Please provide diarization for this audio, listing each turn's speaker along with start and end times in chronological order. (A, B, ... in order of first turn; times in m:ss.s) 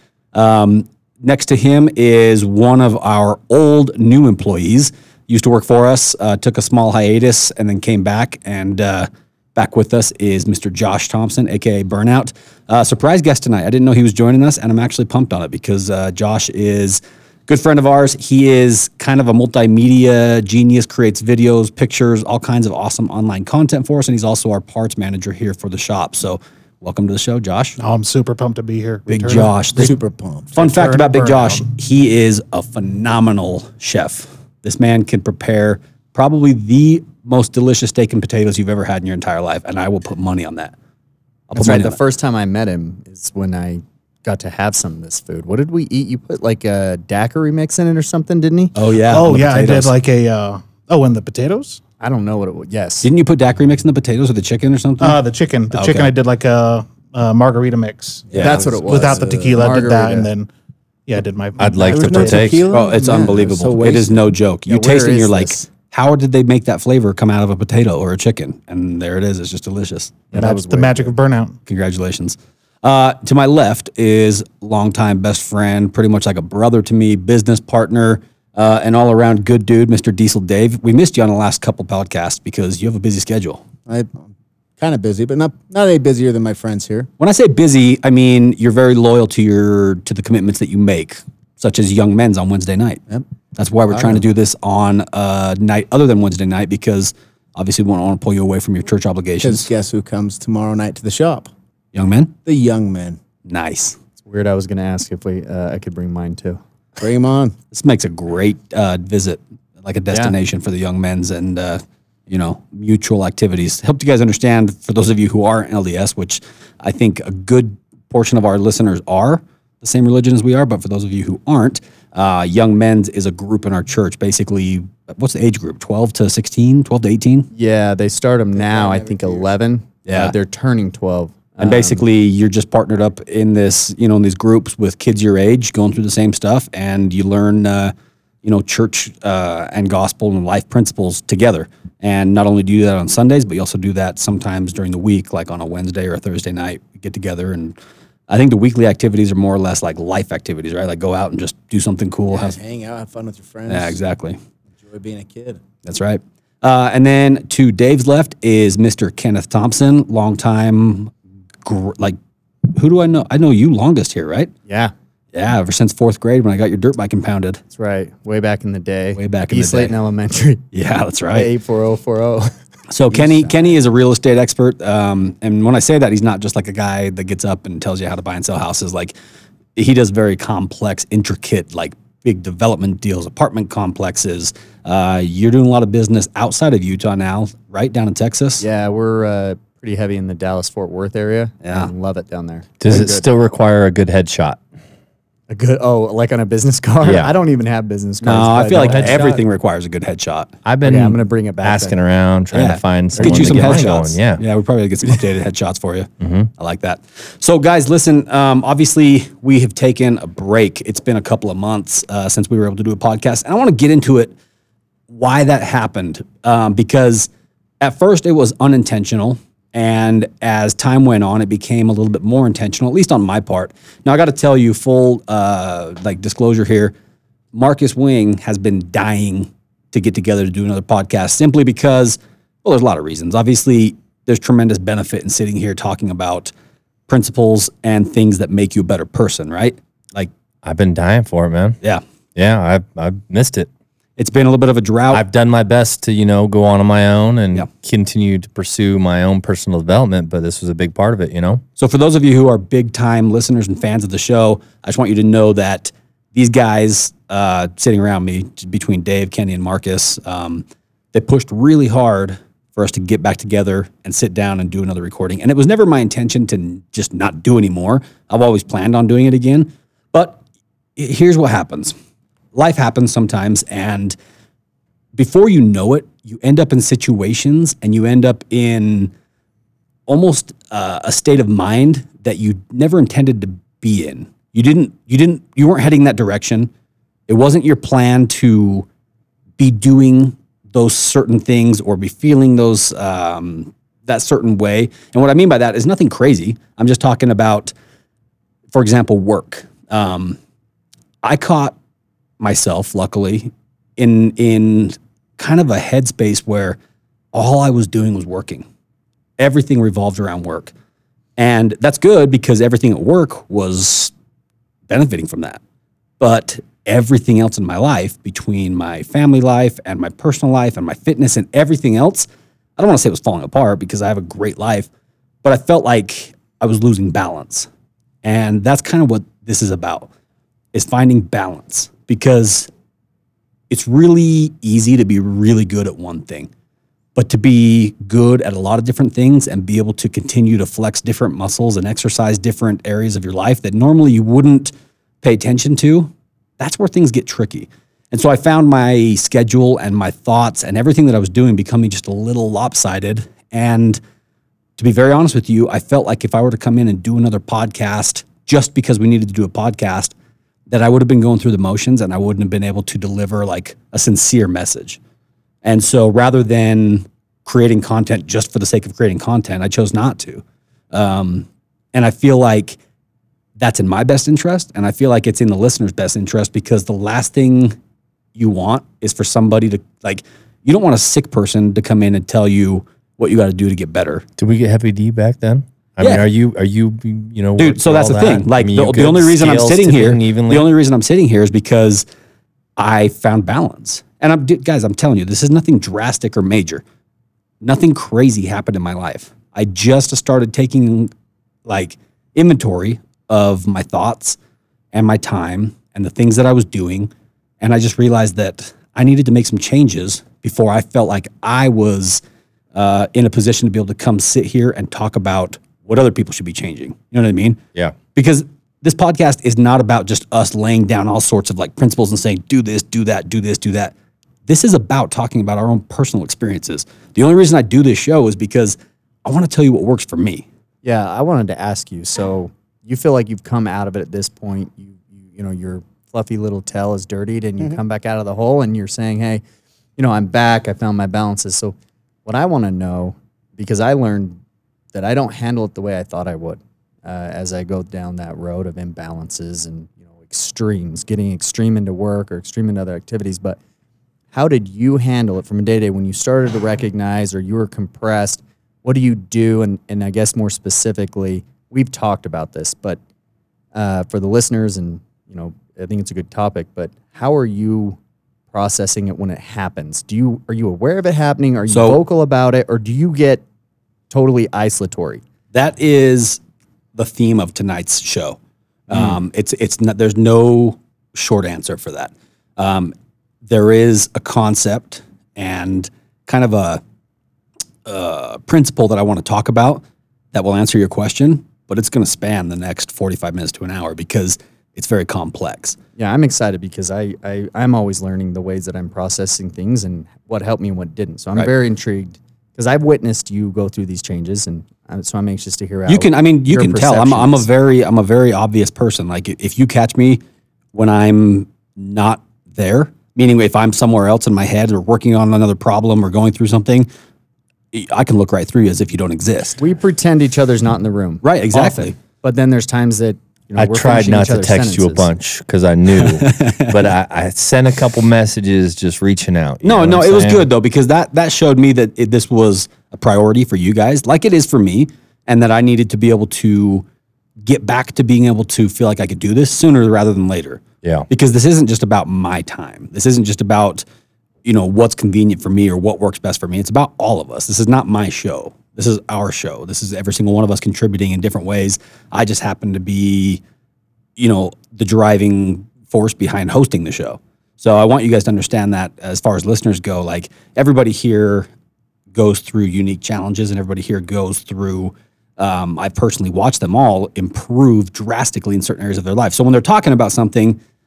0:00.3-0:27.8 A
0:27.8-0:29.6 B
0:29.1-0:29.9 A
0:29.3-0:30.6 C
0:30.6-0:40.7 A
0:30.6-0:31.6 B
0:41.5-0:42.0 A
0:41.5-0:48.7 D
0:48.7-0:49.9 A
0:49.1-0:51.8 B
0:52.0-0:53.1 D
0:53.0-0:55.2 A
0:55.0-1:00.5 B
0:55.7-0:56.1 A
0:58.3-1:00.0 C
0:58.3-0:58.6 A
0:58.3-1:00.3 D
1:01.1-1:02.6 B
1:01.6-1:02.6 E
1:01.8-1:04.2 C
1:02.7-1:10.3 A
1:04.7-1:05.6 D
1:10.3-1:11.1 D
1:10.3-1:11.6 B
1:11.6-1:23.6 A
1:23.9-1:27.1 C
1:27.2-1:33.0 A
1:33.6-1:39.7 A
1:33.9-1:34.2 C
1:39.4-1:41.5 C
1:41.9-1:42.3 A
1:42.4-1:43.2 C
1:43.5-1:44.0 A
1:44.2-1:46.6 D
1:47.0-1:47.6 C
1:47.7-2:07.5 A
2:07.5-2:12.0 D
2:08.5-2:09.5 C
2:10.0-2:10.3 A
2:11.6-2:27.8 A
2:28.3-2:32.6 A
2:32.3-2:34.0 C
2:33.7-2:34.4 A
2:34.8-2:35.6 C
2:35.8-2:41.1 A
2:41.6-2:42.2 A
2:42.7-2:44.5 A
2:44.7-2:44.9 D
2:45.3-2:47.6 A
2:47.7-2:50.6 D
2:49.2-2:49.9 A
2:50.7-2:51.5 A
2:51.3-2:52.5 D
2:52.9-2:59.1 A
2:59.8-3:08.6 A
3:08.6-3:13.2 D
3:11.6-3:11.9 A
3:12.8-3:14.6 E
3:15.5-3:19.4 D
3:17.0-3:17.3 E
3:18.2-3:20.5 A
3:18.7-3:19.3 E
3:20.6-3:24.4 E
3:20.8-3:21.9 D
3:22.5-3:34.3 A
3:23.2-3:24.0 D
3:26.2-3:26.5 E
3:35.1-3:37.3 A
3:37.8-3:46.9 A
3:47.5-3:56.5 A
3:57.1-4:00.3 A
4:00.6-4:01.8 E
4:02.3-4:03.7 E
4:04.2-4:05.2 A
4:05.1-4:11.6 E
4:11.8-4:30.4 A
4:31.0-4:31.9 A
4:32.5-4:34.2 A
4:35.2-4:39.1 A
4:40.1-4:46.7 A
4:47.3-4:48.8 A
4:49.6-4:57.7 A
4:58.7-5:00.4 A
5:01.2-5:01.7 A
5:02.4-5:06.8 A
5:07.3-5:08.6 A
5:09.4-5:10.7 A
5:11.4-5:14.1 A
5:14.9-5:15.6 A
5:16.2-5:22.3 A
5:22.8-5:24.9 A
5:25.4-5:27.7 A
5:28.2-5:30.1 A
5:30.7-5:32.7 A
5:33.7-5:36.5 A
5:37.2-5:54.0 A
5:54.8-6:00.1 A
6:00.7-6:05.0 A
6:05.6-6:12.8 A
6:13.6-6:17.8 A
6:18.4-6:24.2 A
6:24.4-6:30.7 E
6:27.6-6:32.0 A
6:32.8-6:36.8 A
6:37.6-6:41.1 A
6:41.6-6:44.4 A
6:44.9-6:52.2 A
6:52.7-6:57.6 A
6:58.1-7:03.9 A
7:04.5-7:10.4 A
7:10.8-7:19.4 D
7:20.0-7:24.4 D
7:24.9-7:33.6 D
7:34.3-7:43.0 D
7:43.7-7:48.0 D
7:48.5-7:53.4 D
7:51.7-7:52.0 A
7:54.1-7:55.2 D
7:55.5-7:56.4 A
7:57.0-7:58.4 A
7:58.9-8:02.9 A
8:03.4-8:06.8 A
8:07.8-8:15.8 A
8:16.0-8:27.4 D
8:25.9-8:30.2 A
8:30.7-8:36.9 A
8:37.7-8:39.6 A
8:39.6-8:45.1 D
8:41.2-8:41.9 A
8:43.6-8:50.5 E
8:45.9-8:46.9 A
8:49.6-8:56.8 A
8:57.4-9:03.8 A
9:04.4-9:13.4 A
9:14.2-9:21.5 A
9:22.1-9:30.6 A